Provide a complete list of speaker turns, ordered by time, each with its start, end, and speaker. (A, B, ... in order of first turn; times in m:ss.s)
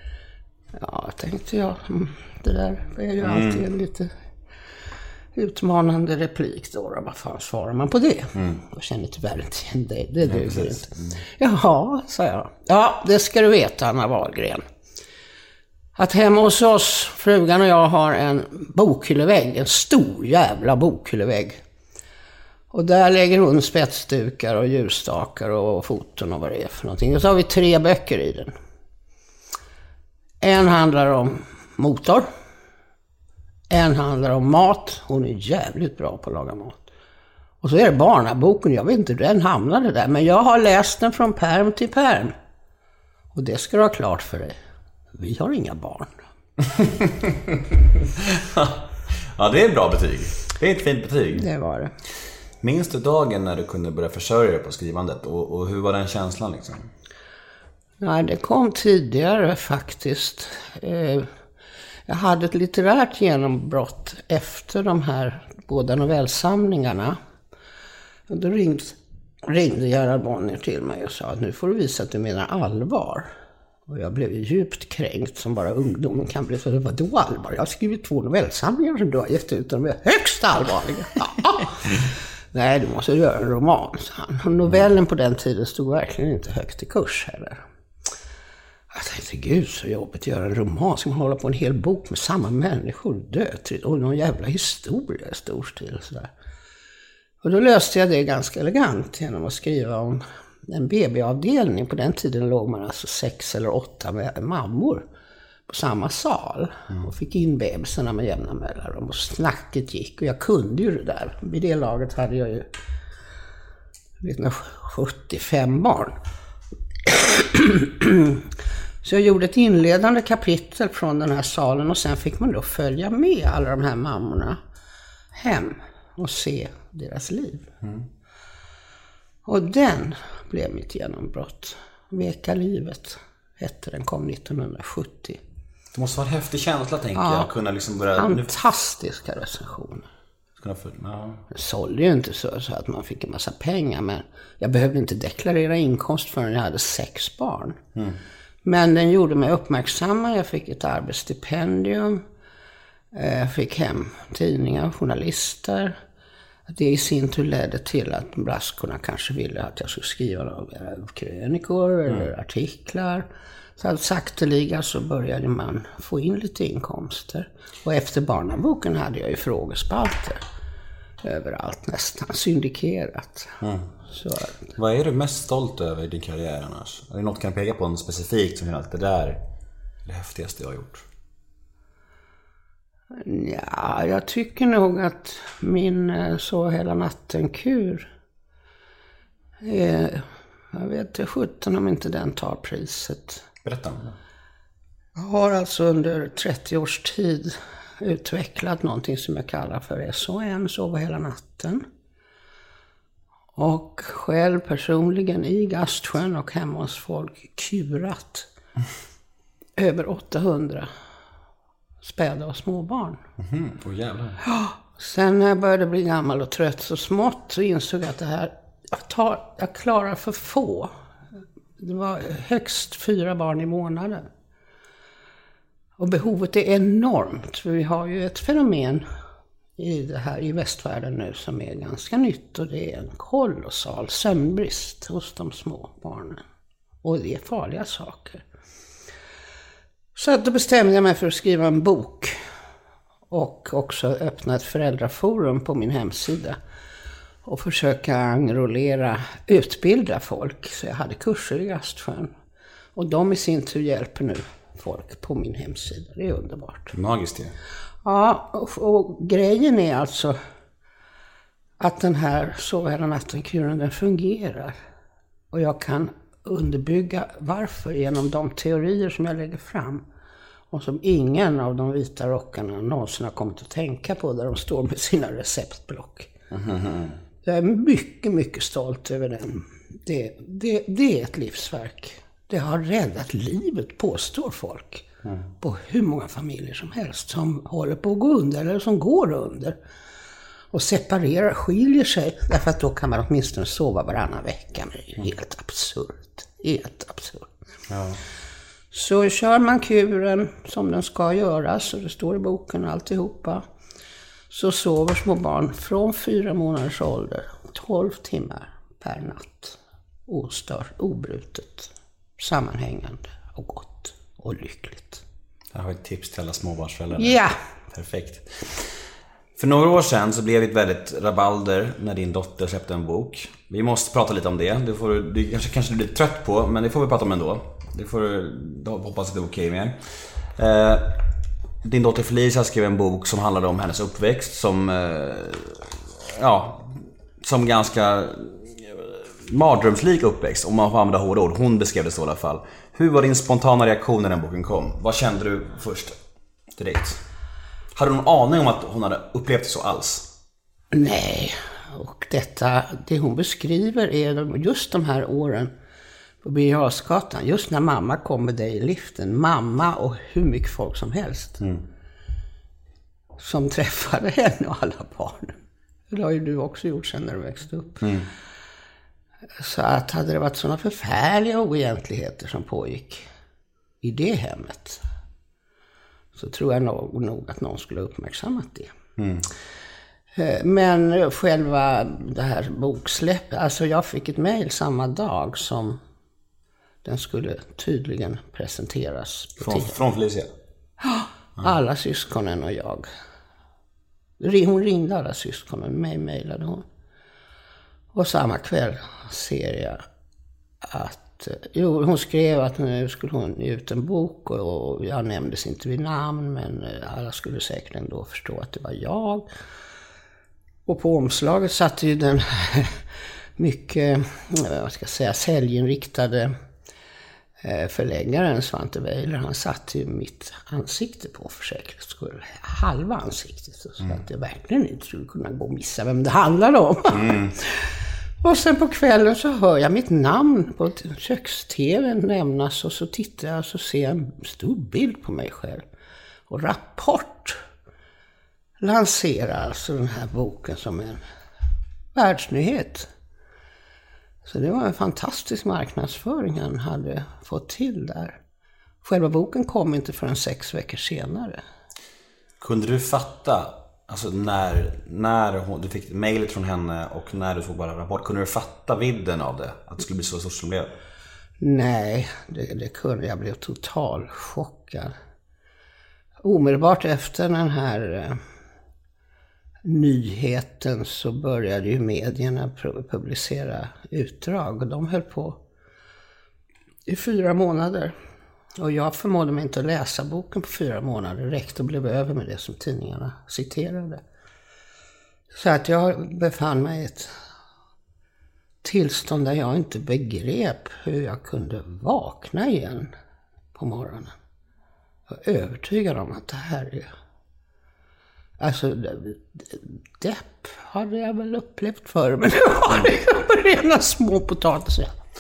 0:00.7-0:04.1 A
0:03.2-0:03.6 B
0:05.4-0:14.6 A
0:08.4-0:08.6 B
0:10.2-0:11.2 B
0:16.0-0:21.6 A
0:22.7-0:28.5 A
0:30.4-0:32.3 A
0:33.7-0:36.8 A
0:37.6-0:42.3 A
0:43.3-0:44.6 A
0:45.1-0:46.2 A
0:46.8-0:47.6 B
0:48.2-0:51.5 B
0:51.4-0:51.9 A
0:52.6-0:56.9 B
0:58.0-1:01.3 A
1:02.1-1:07.2 A
1:08.3-1:13.3 A
1:13.9-1:27.6 A
1:28.9-1:36.3 A
1:37.4-1:45.0 A
1:45.7-1:52.7 A
1:54.2-1:56.2 A
1:57.0-1:58.5 A
1:59.0-2:04.6 A
2:05.3-2:07.7 A
2:09.4-2:15.4 A
2:15.9-2:18.5 B
2:17.2-2:17.5 A
2:18.2-2:20.1 A
2:20.6-2:21.4 B
2:21.5-2:27.8 A
2:28.6-2:32.2 A
2:33.1-2:36.0 A
2:36.7-2:50.5 A
2:51.2-2:54.6 A
2:53.6-2:53.9 B
2:54.8-2:59.4 B
3:00.1-3:01.0 B
3:03.2-3:08.1 A
3:09.6-3:13.4 A
3:13.6-3:14.1 B
3:15.2-3:21.8 A
3:23.6-3:28.5 A
3:29.8-3:30.9 A
3:32.0-3:33.2 A
3:33.4-3:34.4 B
3:34.4-3:40.9 A
3:41.8-3:44.3 A
3:46.0-3:49.0 A
3:49.8-3:56.4 A
3:57.0-3:58.4 A
4:00.2-4:02.4 A
4:03.3-4:06.6 A
4:07.4-4:12.3 A
4:13.0-4:16.9 A
4:16.9-4:17.6 B
4:18.0-4:20.4 A
4:21.8-4:24.8 A
4:25.5-4:30.0 A
4:30.7-4:36.3 A
4:36.5-4:37.2 B
4:37.4-4:45.1 A
4:45.6-4:49.8 A
4:50.7-4:57.5 A
4:57.9-4:58.2 B
4:58.9-5:03.6 A
5:04.5-5:15.2 A
5:15.7-5:17.4 B
5:17.2-5:17.6 A
5:17.9-5:18.9 B
5:19.6-5:30.0 B
5:30.6-5:31.2 B
5:31.8-5:46.2 B
5:46.8-5:47.2 B
5:48.0-5:50.3 B
5:50.9-5:55.7 A
5:56.4-6:01.6 A
6:03.4-6:05.6 A
6:06.1-6:08.0 A
6:08.0-6:08.3 B
6:09.6-6:13.3 A
6:14.0-6:15.0 A
6:16.3-6:18.9 A
6:19.2-6:19.5 B
6:20.4-6:26.0 A
6:27.0-6:29.9 A
6:29.6-6:30.5 B
6:31.0-6:33.1 A
6:34.4-6:36.8 A
6:38.1-6:40.0 A
6:40.8-6:49.5 A
6:50.9-6:53.0 A
6:53.6-6:56.5 A
6:57.6-7:15.8 A
7:07.1-7:07.6 B
7:16.5-7:17.6 A
7:18.8-7:21.2 A
7:22.1-7:23.1 A
7:24.4-7:28.4 A
7:29.0-7:31.6 A
7:32.6-7:41.0 B
7:41.6-7:45.2 A
7:46.4-7:48.4 A
7:49.8-7:55.6 A
7:57.1-7:58.2 A
7:58.8-8:04.2 A
8:05.5-8:07.3 A
8:08.8-8:13.1 A
8:13.7-8:14.3 A
8:15.3-8:17.1 A
8:18.6-8:25.1 A